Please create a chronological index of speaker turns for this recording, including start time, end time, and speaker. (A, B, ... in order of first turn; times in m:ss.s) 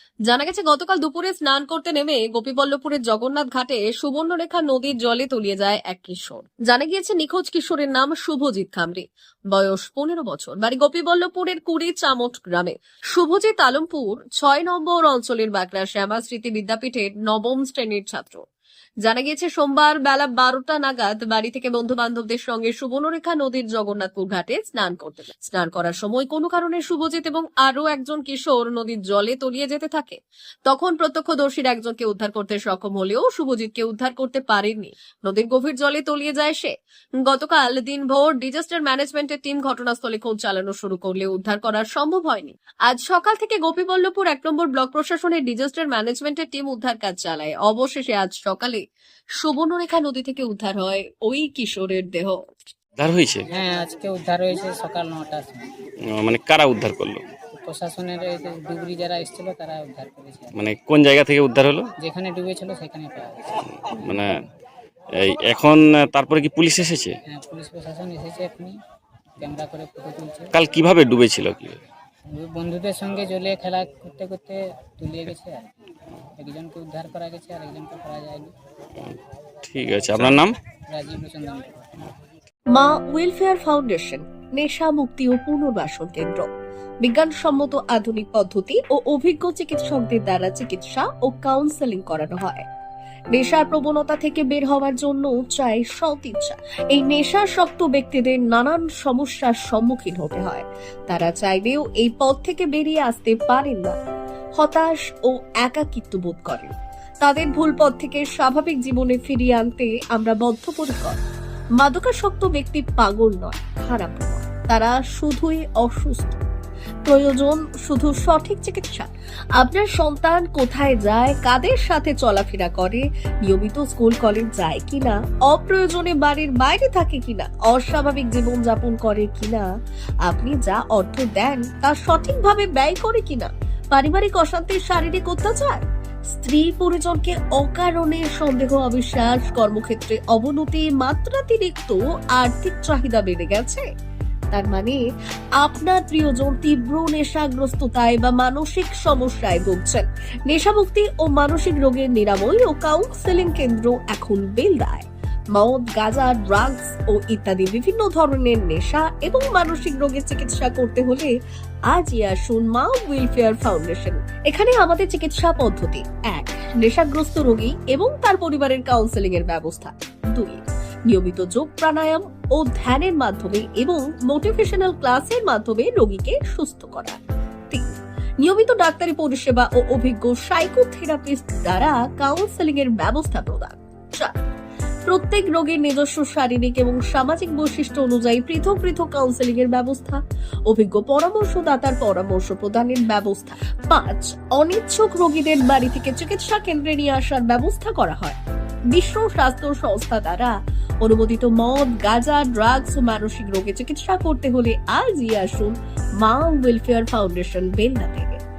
0:00.3-0:18.4 A
0:19.0-0:36.7 A
0:37.2-0:48.8 A
0:49.4-0:52.5 A
0:53.0-0:53.4 B
0:53.5-0:55.7 C
0:56.1-0:57.2 B
0:57.6-1:00.5 C
1:00.5-1:01.9 B
1:02.0-1:04.2 C
1:03.9-1:04.4 B
1:05.2-1:07.2 B
1:07.3-1:08.7 C
1:09.4-1:10.5 C
1:10.5-1:11.8 B
1:12.3-1:15.7 C
1:16.4-1:18.5 C
1:19.0-1:20.5 B
1:20.1-1:22.0 C
1:22.7-1:26.5 A
1:27.0-1:32.6 A
1:33.3-1:44.0 A
1:44.6-1:51.2 A
1:51.8-1:56.4 A
1:57.0-2:09.6 A
2:10.2-2:23.8 A
2:24.5-2:25.0 A
2:25.6-2:41.3 A
2:41.9-2:57.2 A
2:58.4-3:04.3 A
3:05.1-3:18.4 A
3:18.9-3:28.4 A